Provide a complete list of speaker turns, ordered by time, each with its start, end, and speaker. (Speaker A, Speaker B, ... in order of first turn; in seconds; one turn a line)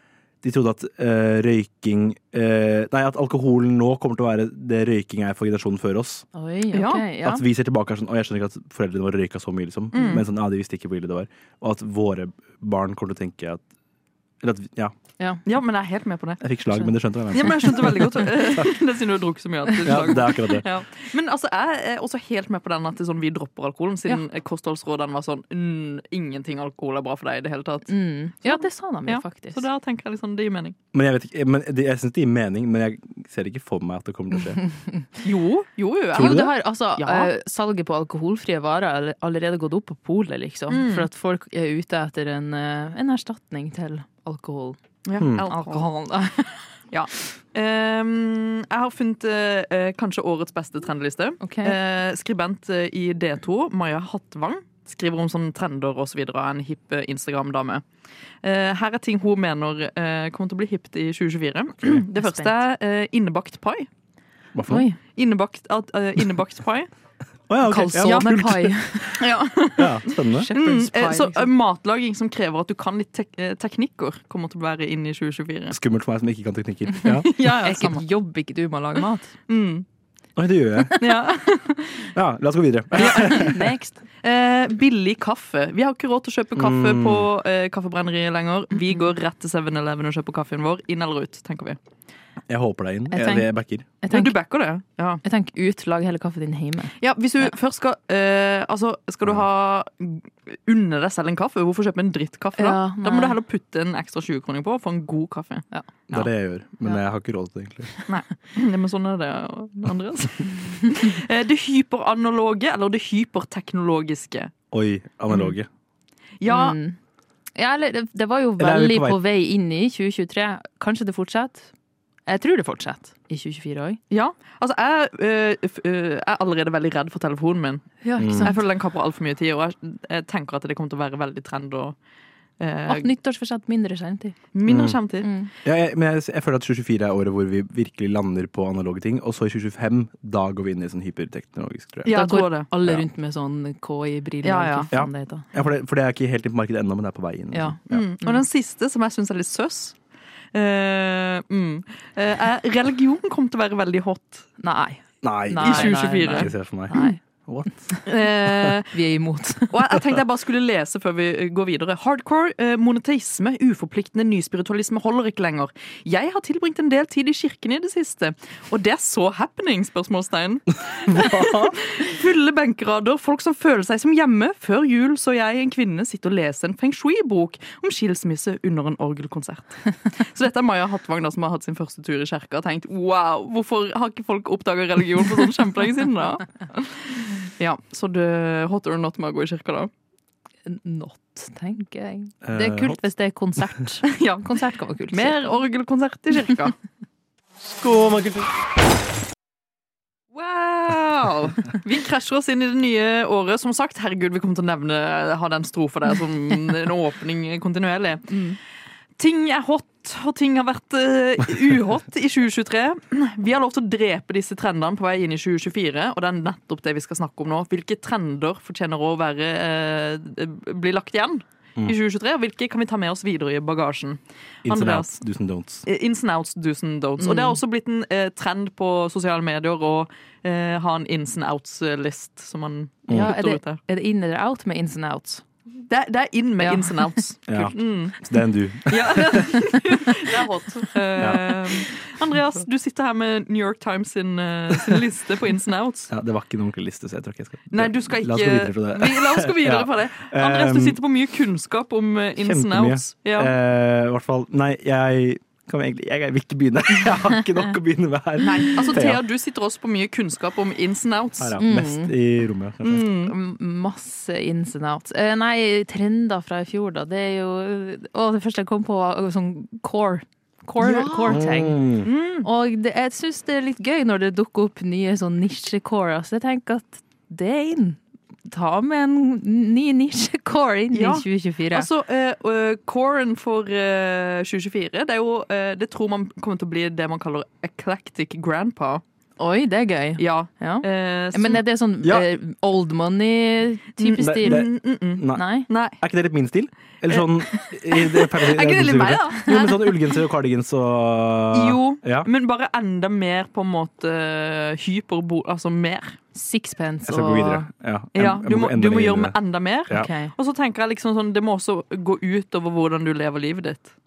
Speaker A: 0.4-6.2
Speaker B: 6.3-7.4
Speaker C: 6.7-7.0
Speaker A: 7.2-13.6
Speaker C: 9.9-10.2
Speaker A: 14.4-14.9
Speaker C: 15.4-16.5
Speaker A: 16.4-18.6
Speaker C: 17.3-27.9
Speaker A: 19.8-20.7
Speaker B: 27.9-29.6
Speaker C: 28.4-30.8
Speaker A: 30.9-34.6
Speaker C: 35.2-37.3
Speaker A: 36.1-36.5
Speaker B: 36.1-44.8
Speaker C: 40.7-41.1
Speaker C: 45.0-45.9
Speaker A: 45.2-45.4
Speaker B: 45.5-46.6
Speaker C: 46.9-57.8
Speaker B: 51.4-51.8
Speaker C: 58.4-63.9
Speaker B: 62.1-62.5
Speaker A: 64.5-64.8
Speaker B: 64.7-65.0
Speaker C: 65.1-66.9
Speaker A: 67.5-69.2
Speaker B: 67.6-69.2
Speaker C: 67.9-68.3
Speaker C: 69.1-75.8
Speaker A: 69.8-70.5
Speaker B: 70.3-71.5
Speaker A: 75.7-77.3
Speaker C: 77.2-78.0
Speaker B: 77.3-79.3
Speaker C: 79.5-79.8
Speaker A: 80.3-81.0
Speaker C: 81.0-82.1
Speaker A: 82.1-83.6
Speaker C: 83.0-83.5
Speaker B: 83.0-84.0
Speaker C: 84.2-91.8
Speaker A: 86.5-87.3
Speaker A: 92.5-93.9
Speaker B: 93.1-93.5
Speaker B: 94.0-94.3
Speaker C: 94.1-95.2
Speaker B: 95.2-96.9
Speaker C: 97.0-106.2
Speaker B: 102.6-103.3
Speaker A: 106.1-107.9
Speaker C: 108.1-114.5
Speaker A: 114.7-115.7
Speaker C: 116.4-116.8
Speaker B: 116.5-117.0
Speaker B: 117.5-121.7
Speaker A: 118.6-119.2
Speaker B: 122.2-124.0
Speaker C: 124.1-131.9
Speaker B: 128.0-128.6
Speaker A: 128.2-128.5
Speaker C: 132.6-133.1
Speaker B: 132.9-134.4
Speaker C: 134.5-135.3
Speaker A: 134.7-135.0
Speaker B: 135.2-135.5
Speaker A: 135.6-142.2
Speaker C: 142.0-142.7
Speaker B: 142.1-145.4
Speaker C: 144.4-144.9
Speaker A: 144.9-148.1
Speaker B: 147.5-148.4
Speaker C: 147.9-149.9
Speaker C: 150.5-154.5
Speaker B: 154.6-157.2
Speaker A: 155.2-157.8
Speaker C: 155.6-157.1
Speaker C: 158.1-158.9
Speaker B: 158.8-159.8
Speaker C: 159.7-189.9
Speaker A: 171.1-171.8
Speaker B: 190.7-195.5
Speaker A: 192.4-193.0
Speaker C: 194.1-194.4
Speaker C: 195.1-196.8
Speaker A: 197.8-198.4
Speaker C: 200.3-208.4
Speaker B: 208.3-208.6
Speaker C: 209.2-225.2
Speaker A: 224.6-225.8
Speaker C: 225.8-233.8
Speaker B: 227.2-227.6
Speaker A: 233.1-233.3
Speaker B: 233.1-235.4
Speaker C: 235.9-238.3
Speaker B: 236.6-237.1
Speaker A: 237.5-239.5
Speaker C: 238.9-246.1
Speaker A: 241.2-241.5
Speaker A: 246.1-251.0
Speaker C: 247.7-253.5
Speaker A: 252.4-259.2
Speaker C: 258.4-261.6
Speaker A: 261.4-263.1
Speaker B: 261.6-262.1
Speaker C: 262.8-263.3
Speaker B: 263.2-271.8
Speaker C: 270.8-271.4
Speaker A: 271.3-272.1
Speaker C: 272.0-272.5
Speaker B: 272.4-281.9
Speaker C: 280.9-289.0
Speaker B: 289.4-294.7
Speaker C: 290.2-291.6
Speaker A: 292.0-292.3
Speaker C: 294.0-296.0
Speaker A: 294.2-302.3
Speaker B: 295.3-295.7
Speaker C: 297.1-300.1
Speaker C: 301.5-306.2
Speaker B: 306.3-307.7
Speaker A: 307.1-309.3
Speaker C: 308.1-313.9
Speaker B: 309.9-310.3